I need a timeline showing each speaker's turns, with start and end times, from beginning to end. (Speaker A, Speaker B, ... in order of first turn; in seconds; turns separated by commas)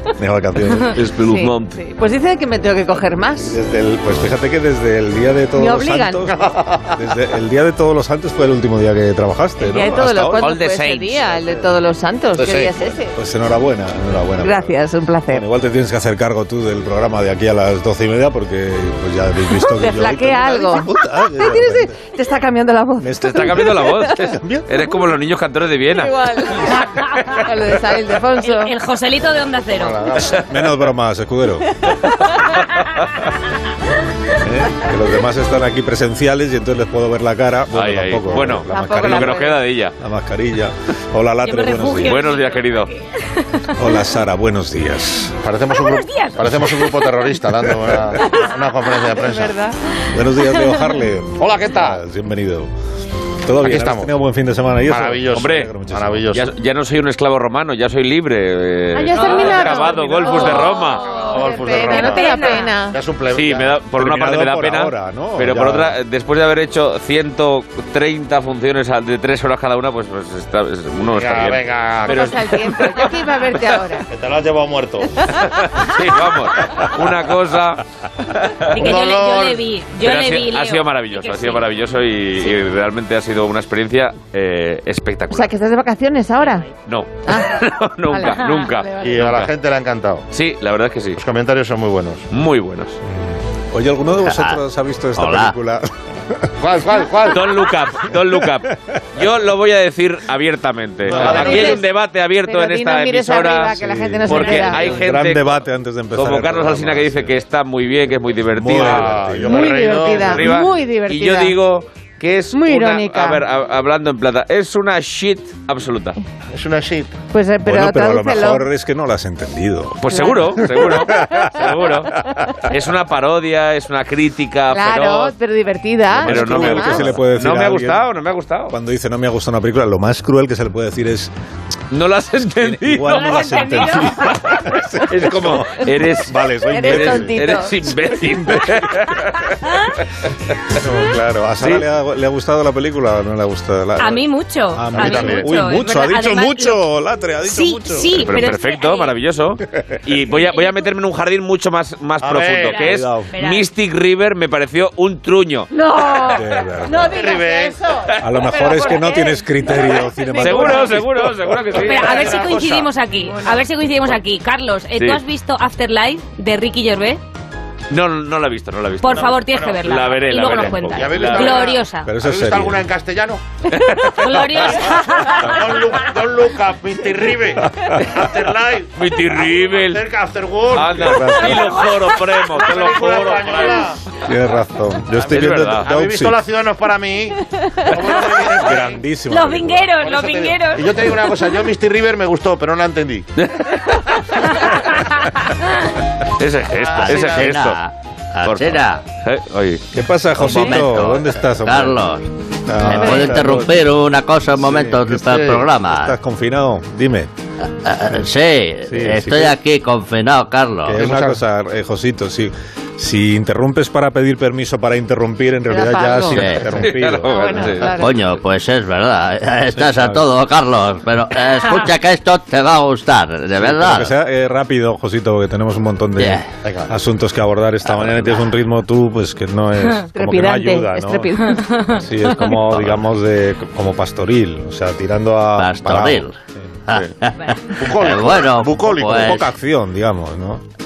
Speaker A: 0.2-1.0, Speaker B: 0.9-1.8, Speaker C: 1.2-3.6, Speaker A: 3.4-10.5, Speaker C: 5.5-6.3, Speaker D: 6.3-6.9, Speaker C: 9.6-13.1, Speaker B: 10.3-11.4, Speaker D: 12.3-12.7, Speaker A: 13.1-14.8, Speaker C: 14.4-15.4, Speaker A: 15.3-22.0, Speaker C: 19.5-24.2, Speaker A: 23.0-24.7, Speaker B: 23.2-26.2, Speaker C: 26.0-28.7, Speaker E: 28.4-30.2, Speaker D: 29.7-30.4, Speaker A: 30.4-31.8, Speaker A: 34.3-42.2, Speaker B: 37.7-39.9, Speaker C: 38.7-39.6, Speaker E: 41.4-43.5, Speaker B: 42.0-42.9, Speaker A: 43.7-45.3, Speaker D: 45.4-49.6, Speaker E: 45.7-47.1, Speaker C: 49.2-49.8, Speaker A: 50.1-52.7, Speaker D: 51.4-52.0, Speaker A: 53.4-56.3, Speaker D: 53.6-54.1, Speaker D: 54.8-56.5, Speaker B: 55.3-55.7, Speaker B: 56.3-61.1, Speaker C: 58.9-63.0, Speaker E: 59.1-62.8, Speaker D: 61.2-62.3, Speaker D: 62.9-63.8, Speaker B: 63.3-73.1, Speaker A: 63.9-66.0, Speaker D: 71.1-72.3, Speaker C: 72.0-74.1, Speaker D: 74.1-75.2, Speaker B: 75.8-78.9, Speaker E: 78.7-81.7, Speaker D: 78.8-79.6, Speaker B: 80.0-85.5, Speaker C: 85.3-86.7, Speaker B: 86.8-89.5, Speaker C: 87.2-88.4, Speaker E: 88.3-88.8, Speaker D: 89.0-90.3, Speaker B: 90.3-91.2, Speaker D: 91.2-92.3, Speaker B: 92.3-93.0, Speaker A: 93.0-96.5, Speaker F: 94.2-94.6, Speaker F: 95.2-95.5, Speaker D: 96.6-97.5, Speaker B: 97.3-105.5, Speaker A: 98.0-98.7, Speaker A: 101.0-101.6, Speaker D: 101.1-101.8, Speaker C: 101.2-105.0, Speaker A: 103.7-107.4, Speaker B: 106.1-109.3, Speaker A: 108.5-110.2, Speaker D: 108.7-110.5, Speaker C: 109.4-111.6, Speaker B: 110.2-116.2, Speaker C: 112.5-113.4, Speaker D: 116.5-117.1, Speaker C: 117.3-118.7, Speaker A: 117.6-121.7, Speaker B: 120.0-122.1, Speaker C: 120.1-122.6, Speaker B: 122.7-125.3, Speaker C: 124.7-127.1, Speaker A: 126.1-128.1, Speaker B: 126.2-128.7, Speaker A: 128.7-131.3, Speaker B: 131.9-134.6, Speaker A: 132.4-137.5, Speaker E: 133.1-134.4, Speaker B: 135.1-139.7, Speaker C: 136.7-137.9, Speaker E: 139.7-139.9, Speaker A: 140.7-148.2, Speaker B: 141.6-141.8, Speaker E: 144.0-146.8, Speaker E: 147.4-149.1, Speaker B: 148.1-156.3, Speaker E: 150.3-150.7, Speaker D: 152.2-152.8, Speaker E: 152.6-153.7, Speaker A: 152.8-153.3, Speaker C: 155.7-159.3, Speaker A: 156.3-157.3, Speaker D: 157.1-157.9, Speaker A: 158.2-161.8, Speaker C: 159.8-160.8, Speaker B: 160.4-162.2, Speaker E: 161.8-167.2, Speaker D: 161.8-162.9, Speaker B: 167.9-171.6, Speaker E: 169.0-172.1, Speaker D: 169.2-169.8, Speaker D: 170.9-173.4, Speaker A: 172.0-172.8, Speaker B: 173.7-174.7, Speaker E: 174.0-176.0, Speaker D: 174.7-181.3, Speaker A: 177.7-178.1, Speaker B: 179.0-180.0, Speaker B: 180.7-183.9, Speaker A: 180.9-181.8, Speaker D: 182.4-184.0, Speaker A: 184.2-186.4, Speaker B: 185.2-185.9, Speaker D: 185.8-189.0, Speaker A: 188.6-189.9, Speaker E: 189.3-191.0, Speaker D: 189.9-193.3, Speaker B: 193.4-194.2, Speaker B: 196.4-197.8, Speaker D: 196.8-197.6, Speaker F: 196.9-199.0, Speaker B: 198.4-199.8, Speaker A: 199.9-202.0, Speaker F: 200.4-202.2, Speaker A: 202.7-203.7, Speaker F: 202.8-206.1, Speaker A: 204.5-207.3, Speaker D: 205.2-205.6, Speaker F: 207.6-211.2, Speaker A: 208.8-209.6, Speaker A: 210.8-217.7, Speaker D: 211.0-211.4, Speaker C: 215.7-218.1, Speaker F: 216.3-216.7, Speaker B: 216.8-218.1, Speaker F: 217.8-224.1, Speaker A: 219.7-220.2, Speaker A: 223.6-231.3, Speaker F: 226.2-226.5, Speaker D: 226.6-226.9, Speaker F: 227.8-228.4, Speaker C: 230.1-231.8, Speaker E: 231.5-232.6, Speaker A: 231.9-236.6, Speaker F: 235.6-236.3, Speaker F: 236.9-239.4, Speaker D: 237.7-239.4, Speaker A: 239.0-240.6